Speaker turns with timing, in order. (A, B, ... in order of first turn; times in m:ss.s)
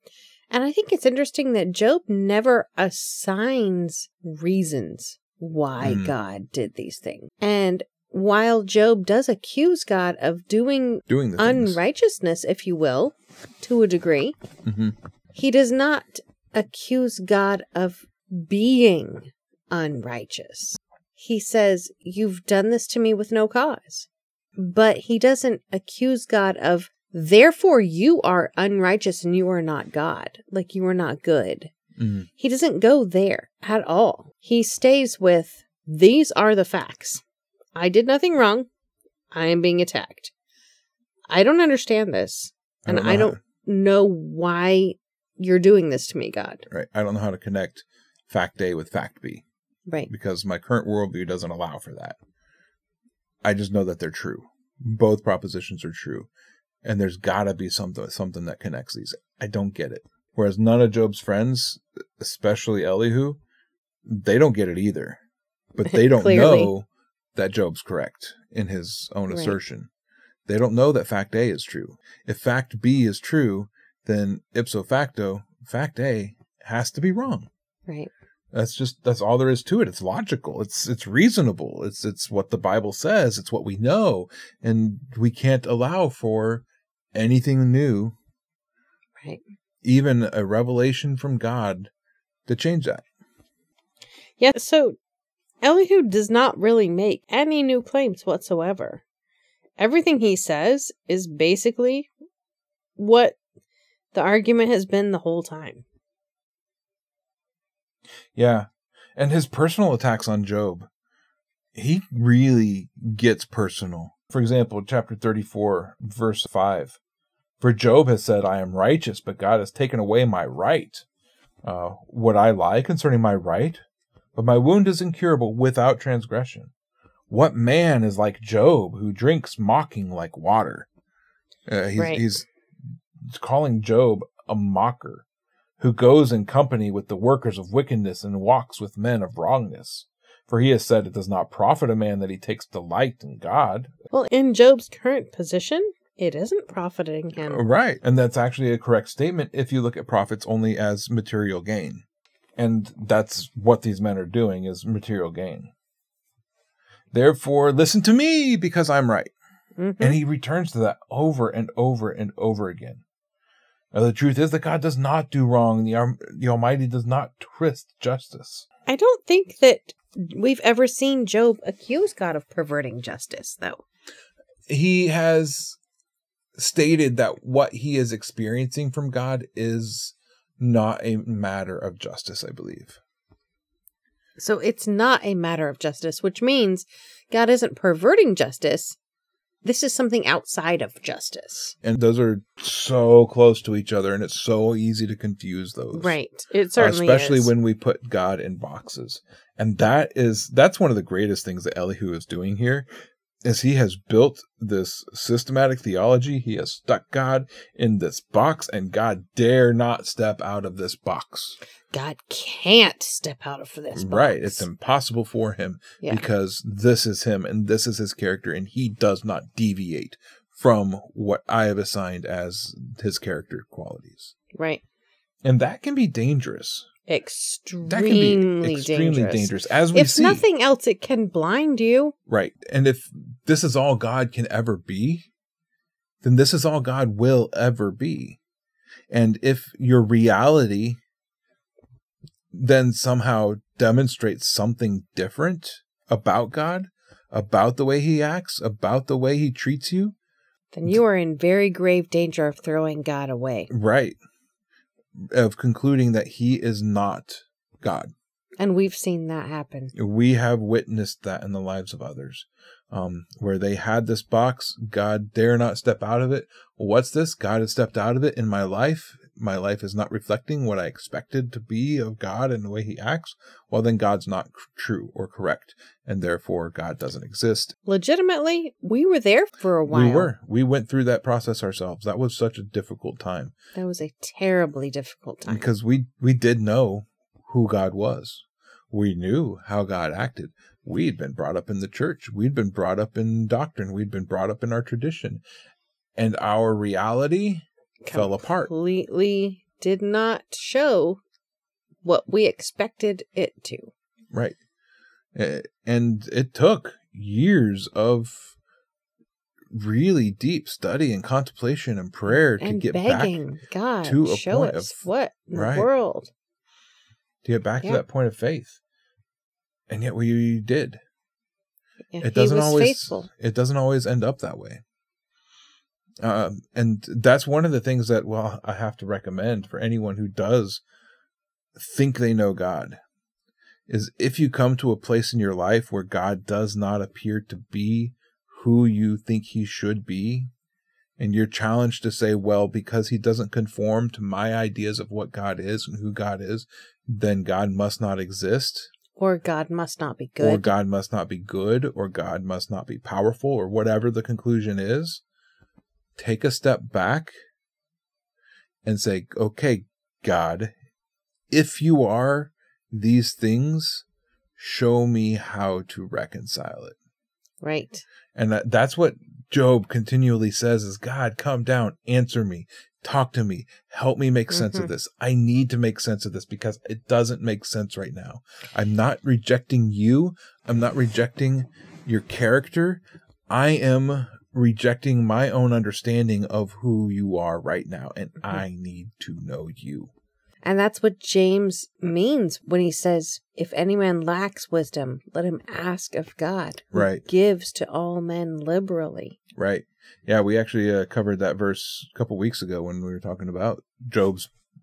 0:00.5-0:14.4 A
0:05.8-0:06.1 B
0:11.1-0:11.8 B
0:14.6-0:15.0 B
0:15.3-0:31.7 A
0:32.0-0:32.3 B
0:32.4-0:37.2 A
0:37.8-0:38.7 A
0:39.3-0:40.3 A
0:41.3-0:46.7 A
0:42.9-0:43.4 B
0:46.7-0:49.4 B
0:50.1-0:52.2 B
0:53.4-0:56.3 B
0:56.8-1:03.4 B
1:04.1-1:05.2 B
1:05.8-1:09.9 B
1:05.9-1:06.7 A
1:09.3-1:09.6 A
1:10.5-1:17.5 B
1:18.5-1:28.2 B
1:29.8-1:31.9 B
1:32.5-1:33.0 B
1:34.4-1:35.0 A
1:35.6-1:39.0 A
1:39.8-1:42.1 A
1:43.0-1:43.4 A
1:44.1-1:45.8 A
1:48.4-1:50.9 B
1:51.8-1:57.0 B
1:57.6-2:01.0 B
2:01.6-2:03.8 B
2:04.4-2:06.7 B
2:07.3-2:10.9 B
2:11.7-2:12.5 B
2:12.0-2:12.2 A
2:13.3-2:15.2 B
2:15.8-2:23.9 B
2:24.1-2:27.6 A
2:27.4-2:32.0 B
2:32.6-2:35.7 B
2:37.1-2:39.3 B
2:39.8-2:40.2 A
2:40.0-2:43.0 B
2:43.9-2:48.7 B
2:48.9-2:53.8 A
2:54.7-2:55.8 B
2:56.6-3:03.0 B
3:04.4-3:09.0 A
3:09.6-3:11.8 A
3:11.8-3:16.2 B
3:15.9-3:17.5 A
3:16.8-3:22.9 B
3:23.4-3:31.6 B
3:31.9-3:34.7 A
3:33.9-3:44.4 B
3:44.5-3:44.8 A
3:45.4-3:46.9 B
3:47.1-3:52.2 A
3:47.9-3:50.4 B
3:52.3-3:55.3 B
3:56.2-3:58.4 B
3:59.1-4:01.0 B
4:02.5-4:10.1 B
4:10.7-4:13.7 A
4:13.7-4:14.2 B
4:15.2-4:18.1 B
4:18.6-4:19.9 A
4:19.9-4:37.8 B
4:37.9-4:40.3 A
4:39.9-4:43.5 B
4:43.8-4:45.7 A
4:45.5-4:55.4 B
4:56.2-4:58.7 B
4:58.0-5:01.2 A
5:02.0-5:03.9 A
5:04.3-5:04.6 B
5:05.4-5:08.6 B
5:09.7-5:13.4 B
5:12.6-5:16.3 A
5:14.0-5:15.9 B
5:17.4-5:18.8 B
5:19.9-5:21.0 B
5:22.1-5:23.3 A
5:22.2-5:24.8 B
5:26.2-5:30.8 B
5:31.8-5:33.0 B
5:33.9-5:40.5 B
5:41.2-5:48.9 B
5:49.2-5:50.7 A
5:50.4-5:55.2 B
5:56.2-5:57.3 B
5:58.8-6:00.7 B
6:01.5-6:04.0 B
6:04.6-6:07.0 B
6:07.6-6:08.0 A
6:08.4-6:30.1 B
6:14.5-6:14.9 A
6:30.6-6:39.4 A
6:36.9-6:37.2 B
6:39.6-6:44.5 B